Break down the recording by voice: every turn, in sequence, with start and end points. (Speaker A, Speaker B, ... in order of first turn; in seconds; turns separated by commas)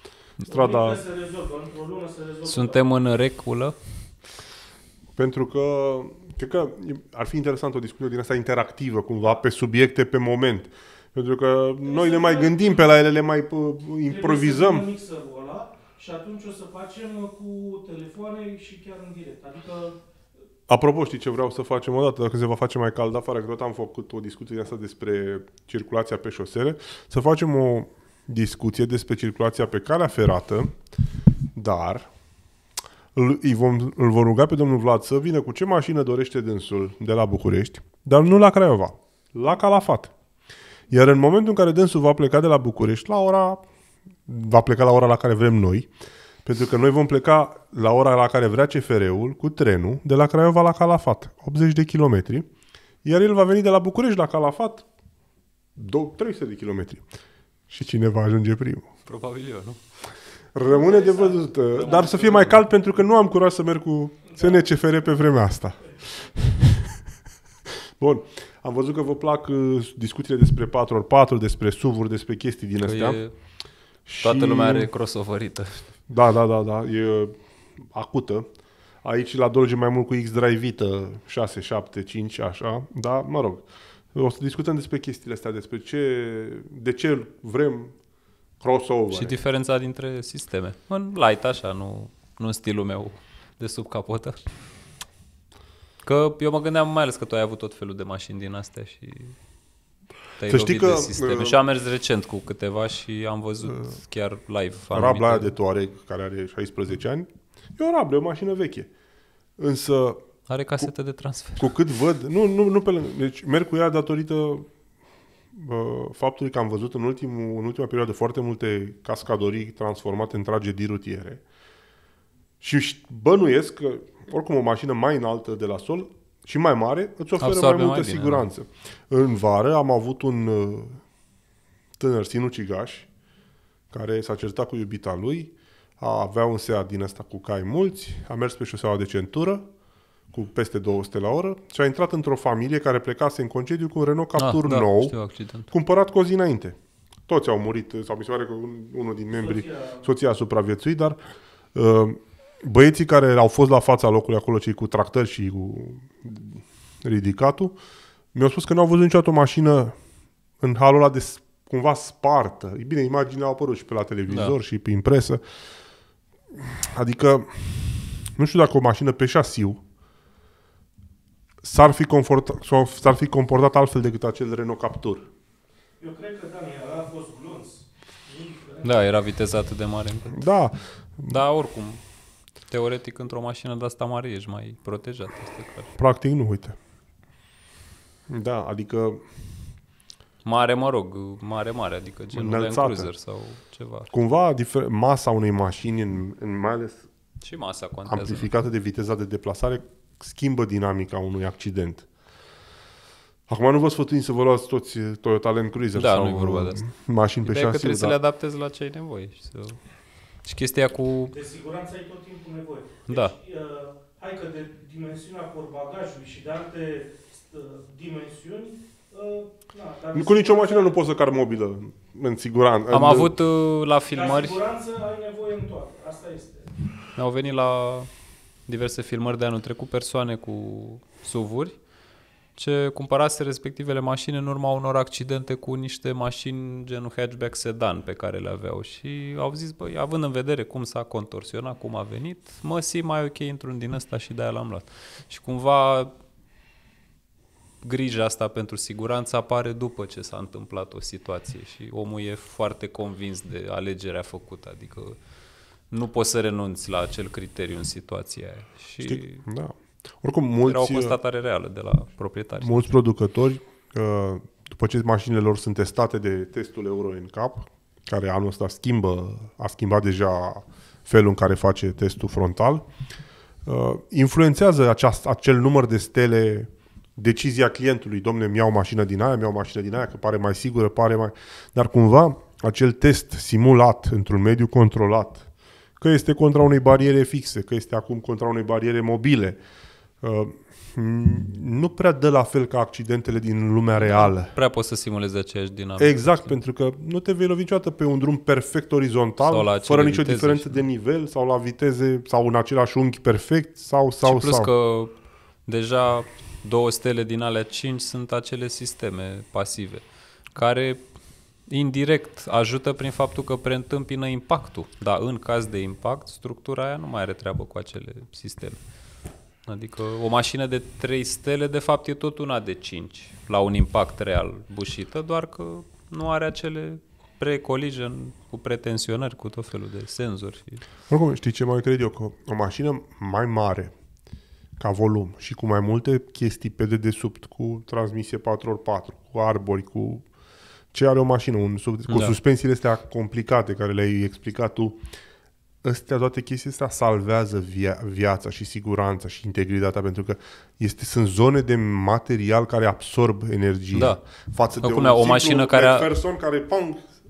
Speaker A: 0.4-1.0, Speaker B: 0.5-2.8, Speaker C: 2.5-3.8, Speaker A: 5.2-14.9, Speaker B: 11.8-12.8, Speaker B: 14.1-20.0, Speaker A: 20.7-30.8, Speaker A: 31.6-32.1, Speaker A: 33.1-40.1, Speaker A: 40.9-43.7, Speaker A: 44.3-45.9, Speaker A: 46.5-52.5, Speaker A: 53.0-54.9, Speaker A: 55.8-57.1, Speaker A: 57.7-58.9, Speaker C: 59.1-59.8, Speaker A: 60.5-66.9, Speaker B: 60.7-62.5, Speaker C: 62.0-62.5, Speaker A: 68.0-73.2, Speaker C: 72.8-73.3, Speaker A: 74.1-74.9, Speaker C: 74.2-75.8, Speaker A: 76.1-78.5, Speaker A: 79.0-88.0, Speaker A: 88.6-89.4, Speaker C: 89.1-94.4, Speaker C: 96.0-99.3, Speaker C: 100.4-105.5, Speaker A: 100.5-101.6, Speaker A: 104.9-108.9, Speaker A: 109.6-110.2, Speaker C: 110.5-111.7, Speaker A: 111.6-114.7, Speaker A: 115.5-121.4, Speaker A: 122.6-131.0, Speaker C: 127.4-128.4, Speaker A: 132.0-133.1, Speaker A: 133.9-139.7, Speaker A: 140.3-145.2, Speaker C: 144.4-145.7, Speaker A: 145.7-151.2, Speaker B: 149.3-150.1, Speaker A: 151.7-157.8, Speaker A: 158.3-160.0, Speaker A: 160.6-165.4, Speaker C: 164.3-164.6, Speaker A: 166.6-169.8, Speaker A: 171.6-175.3, Speaker B: 176.0-179.1, Speaker C: 178.8-180.5, Speaker A: 180.3-181.4, Speaker C: 181.3-182.0, Speaker C: 182.7-185.9, Speaker A: 186.0-186.8, Speaker A: 188.3-189.2, Speaker C: 190.4-194.1, Speaker A: 192.3-193.1, Speaker A: 194.1-197.1, Speaker C: 197.4-198.5, Speaker A: 198.1-202.1, Speaker A: 203.5-208.2, Speaker C: 205.9-206.8, Speaker C: 207.5-209.8, Speaker C: 210.4-211.3, Speaker B: 211.3-221.0, Speaker C: 213.1-213.3, Speaker A: 220.1-223.4, Speaker C: 222.9-224.6, Speaker B: 224.1-226.7, Speaker C: 227.2-228.1, Speaker C: 228.7-231.8, Speaker C: 232.6-246.1, Speaker C: 247.8-255.2, Speaker C: 255.9-259.4, Speaker A: 259.0-261.2, Speaker C: 260.7-262.9, Speaker A: 262.6-272.9, Speaker A: 273.6-285.5, Speaker A: 286.0-289.6, Speaker A: 290.2-294.5, Speaker C: 294.0-296.5, Speaker A: 296.0-304.7, Speaker C: 299.4-300.8, Speaker C: 304.2-305.1, Speaker C: 305.7-310.0, Speaker C: 310.6-311.0, Speaker C: 311.7-318.8, Speaker C: 319.7-330.9, Speaker A: 331.1-333.9, Speaker A: 334.8-340.3, Speaker A: 340.9-345.0, Speaker C: 342.1-342.3, Speaker A: 345.8-357.0, Speaker C: 353.9-354.2, Speaker C: 354.8-356.1